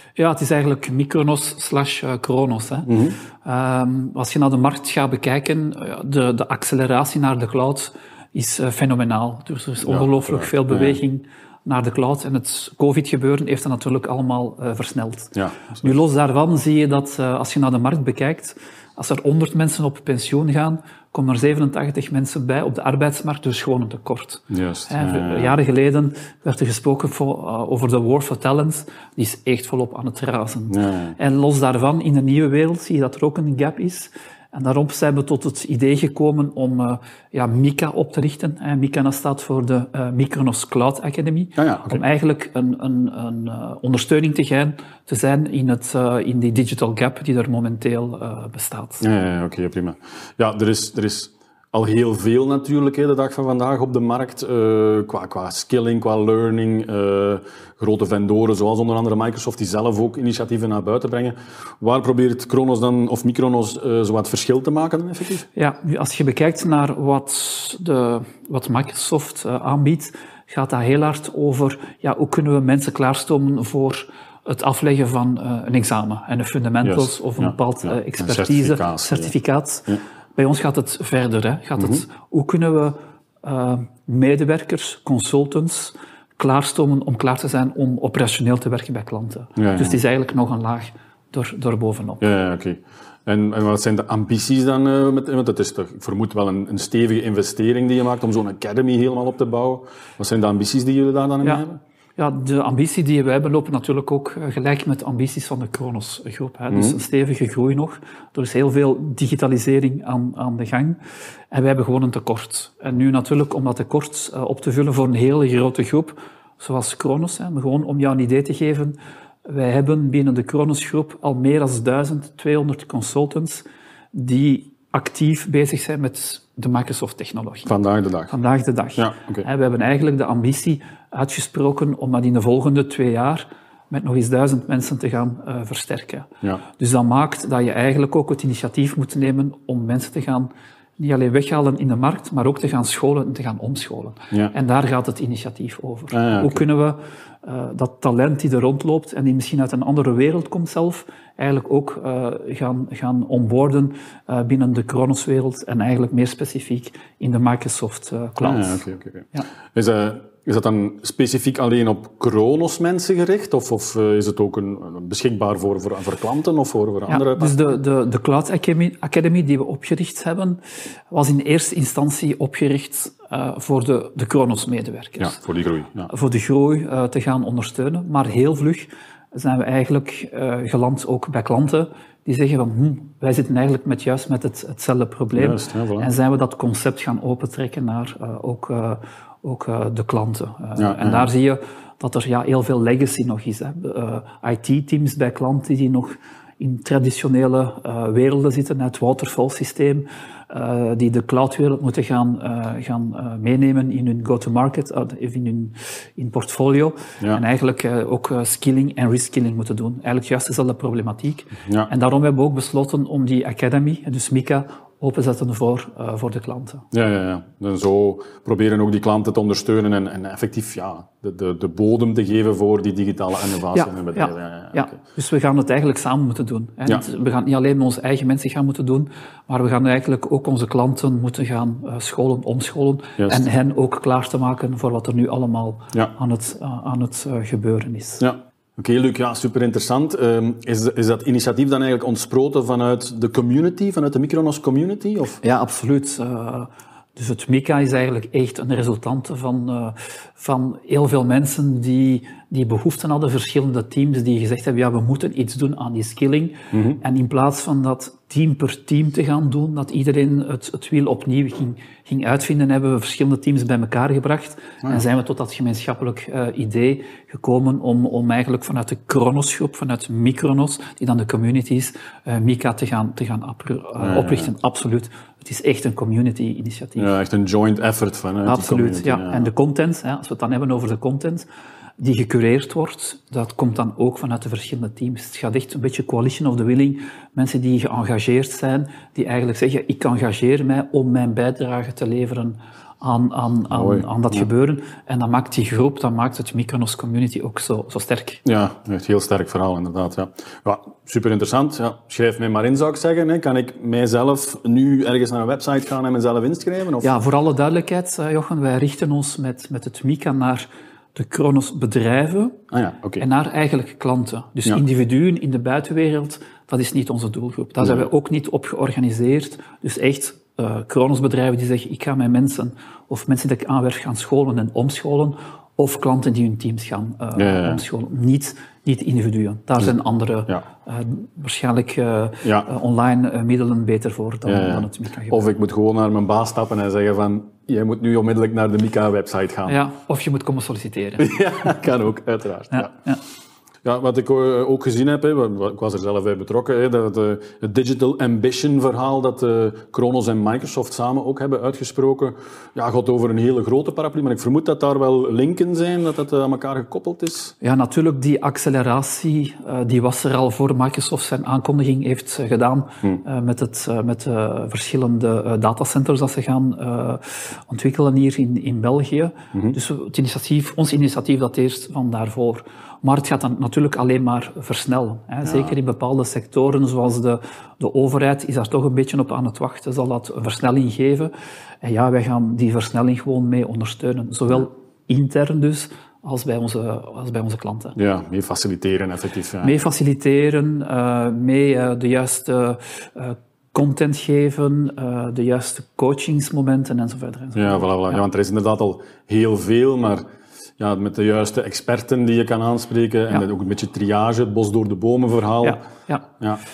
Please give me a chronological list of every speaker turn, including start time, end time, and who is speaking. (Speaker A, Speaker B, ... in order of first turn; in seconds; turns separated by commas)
Speaker A: 0.2-2.9, Speaker B: 2.9-3.2, Speaker A: 3.4-49.0, Speaker B: 9.8-11.0, Speaker B: 15.3-15.9, Speaker B: 24.5-25.6, Speaker B: 30.7-31.2, Speaker B: 41.6-42.0, Speaker B: 49.0-65.5, Speaker A: 65.5-92.2, Speaker B: 76.8-79.3, Speaker B: 81.8-82.0, Speaker B: 89.6-90.0, Speaker B: 92.2-101.8, Speaker A: 102.2-111.0, Speaker B: 106.7-107.0, Speaker A: 111.5-127.7, Speaker B: 127.7-128.3, Speaker A: 128.3-159.5, Speaker B: 129.0-129.4, Speaker B: 146.1-146.6, Speaker B: 158.4-167.6, Speaker A: 167.1-175.4, Speaker B: 175.2-176.1, Speaker A: 176.1-216.9, Speaker B: 185.3-186.1, Speaker B: 190.8-191.3, Speaker B: 211.7-211.9, Speaker B: 216.9-225.0, Speaker A: 223.7-238.2, Speaker B: 233.2-233.4, Speaker B: 238.2-245.4, Speaker A: 245.4-277.1, Speaker B: 256.7-257.0, Speaker B: 274.0-274.5, Speaker B: 277.0-279.5, Speaker A: 278.5-281.5, Speaker A: 282.0-298.4, Speaker B: 293.7-294.5, Speaker B: 298.4-307.1, Speaker A: 307.0-312.6, Speaker B: 312.7-313.3, Speaker A: 313.2-335.5, Speaker B: 317.8-318.1, Speaker B: 327.4-327.8, Speaker B: 332.4-332.7, Speaker B: 334.5-339.8, Speaker A: 339.7-341.3, Speaker B: 341.2-342.9, Speaker A: 342.7-343.2, Speaker B: 343.8-357.6, Speaker A: 357.6-388.0, Speaker B: 375.4-375.8, Speaker B: 387.9-389.8, Speaker A: 389.6-398.2, Speaker B: 397.6-400.2, Speaker B: 400.8-405.8, Speaker A: 405.6-406.3